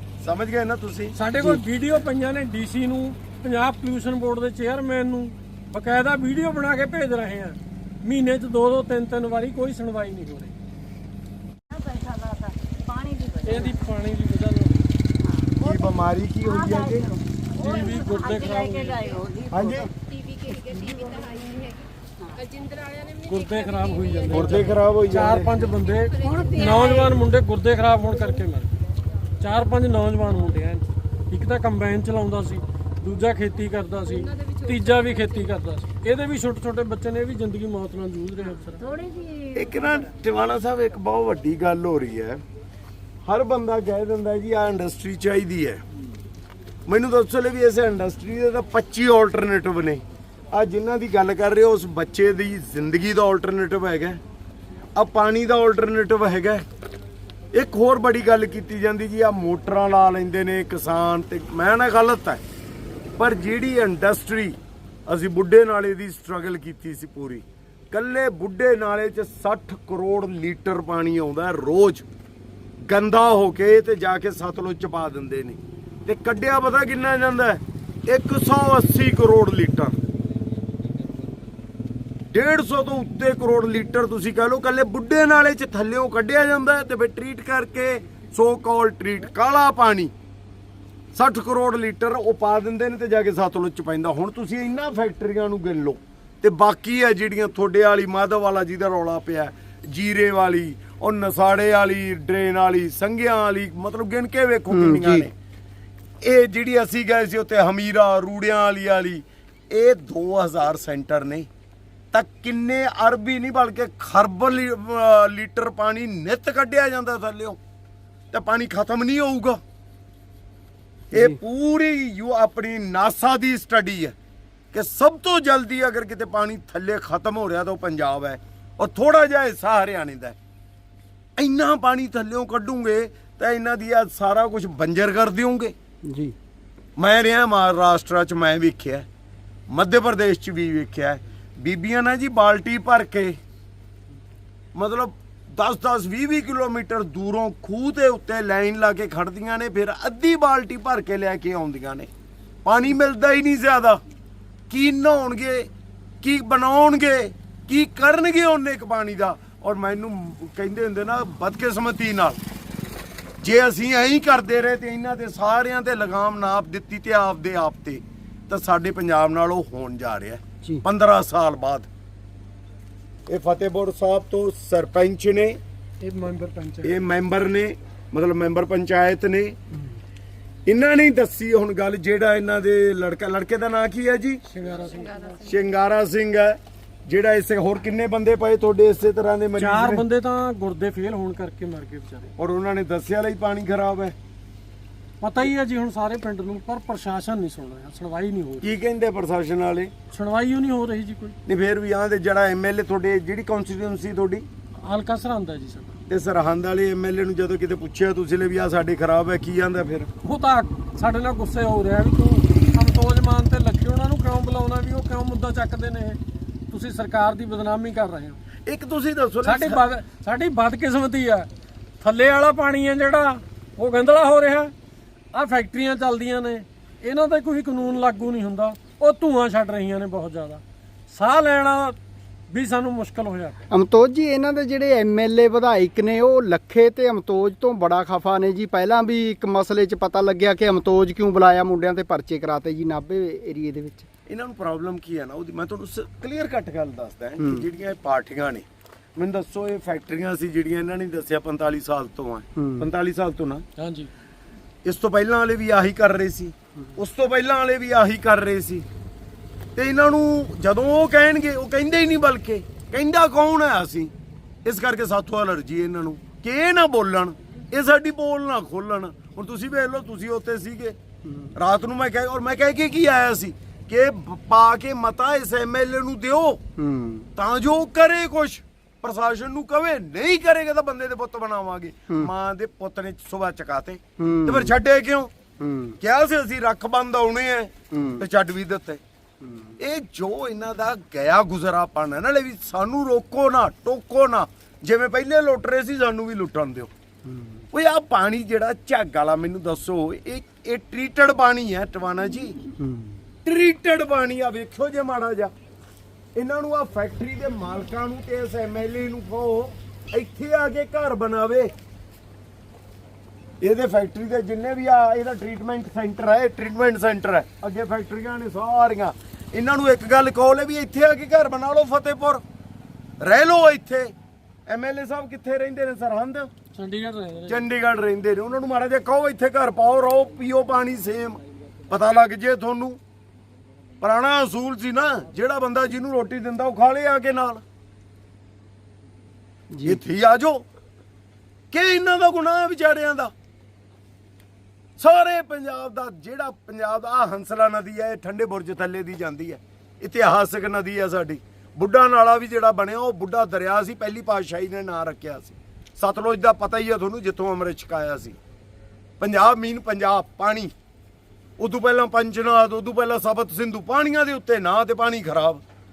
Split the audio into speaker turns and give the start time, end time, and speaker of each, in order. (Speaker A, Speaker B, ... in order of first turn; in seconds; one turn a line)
Speaker A: 0.2-1.1
Speaker B: 1.1-10.5
Speaker C: 11.7-13.7
Speaker B: 13.4-14.9
Speaker A: 15.6-17.1
Speaker C: 16.4-19.8
Speaker B: 17.6-19.2
Speaker A: 19.5-19.9
Speaker D: 20.2-21.7
Speaker C: 20.9-21.5
Speaker D: 22.4-23.2
Speaker B: 23.2-28.7
Speaker A: 24.3-25.5
Speaker C: 26.3-27.0
Speaker B: 29.4-38.9
Speaker C: 38.8-39.5
Speaker A: 39.5-42.4
Speaker A: 43.2-45.8
Speaker A: 46.9-54.2
Speaker A: 55.0-56.6
Speaker A: 57.5-62.4
Speaker A: 63.2-72.0
Speaker A: 72.8-80.0
Speaker A: 82.3-90.1
Speaker A: 91.1-105.3
Speaker E: 104.7-105.3
Speaker A: 106.2-111.5
Speaker A: 112.1-117.6
Speaker A: 118.3-119.6
Speaker A: 121.1-124.1
Speaker E: 121.1-121.4
Speaker A: 124.7-130.3
Speaker A: 131.4-135.7
Speaker E: 136.1-136.3
Speaker A: 137.0-139.1
Speaker A: 139.7-143.4
Speaker A: 144.7-152.1
Speaker A: 152.6-154.0
Speaker A: 154.7-155.7
Speaker A: 156.2-162.4
Speaker A: 163.4-171.9
Speaker A: 173.3-175.6
Speaker B: 176.0-176.9
Speaker A: 176.8-179.6
Speaker A: 180.7-184.4
Speaker B: 184.5-185.5
Speaker A: 185.4-190.0
Speaker B: 189.6-192.3
Speaker A: 192.4-194.1
Speaker B: 195.2-198.7
Speaker A: 198.6-199.9
Speaker B: 200.1-201.4
Speaker A: 201.4-204.4
Speaker B: 204.8-205.9
Speaker A: 206.1-210.1
Speaker B: 210.2-216.2
Speaker B: 216.7-218.4
Speaker A: 218.7-219.8
Speaker B: 219.4-221.5
Speaker B: 222.0-224.7
Speaker B: 225.3-231.9
Speaker B: 232.5-233.6
Speaker E: 233.7-244.1
Speaker A: 244.3-248.6
Speaker A: 249.2-253.6
Speaker E: 252.6-252.9
Speaker B: 253.8-254.1
Speaker A: 254.8-258.9
Speaker A: 259.8-264.1
Speaker A: 264.6-270.9
Speaker A: 271.5-276.6
Speaker E: 276.8-277.3
Speaker A: 277.4-285.3
Speaker E: 284.2-284.7
Speaker E: 285.6-286.0
Speaker A: 286.0-289.0
Speaker E: 287.9-288.2
Speaker E: 289.4-289.7
Speaker A: 289.8-296.9
Speaker E: 297.2-297.6
Speaker A: 297.7-302.6
Speaker E: 302.8-303.2
Speaker A: 303.4-305.5
Speaker A: 306.4-311.7
Speaker A: 313.6-322.4
Speaker A: 323.2-324.1
Speaker A: 324.7-326.5
Speaker B: 326.7-327.6
Speaker A: 327.5-333.0
Speaker A: 334.0-337.6
Speaker E: 339.7-340.0
Speaker A: 339.8-340.6
Speaker A: 341.7-343.3
Speaker A: 345.0-358.4
Speaker A: 359.2-360.7
Speaker A: 361.6-365.6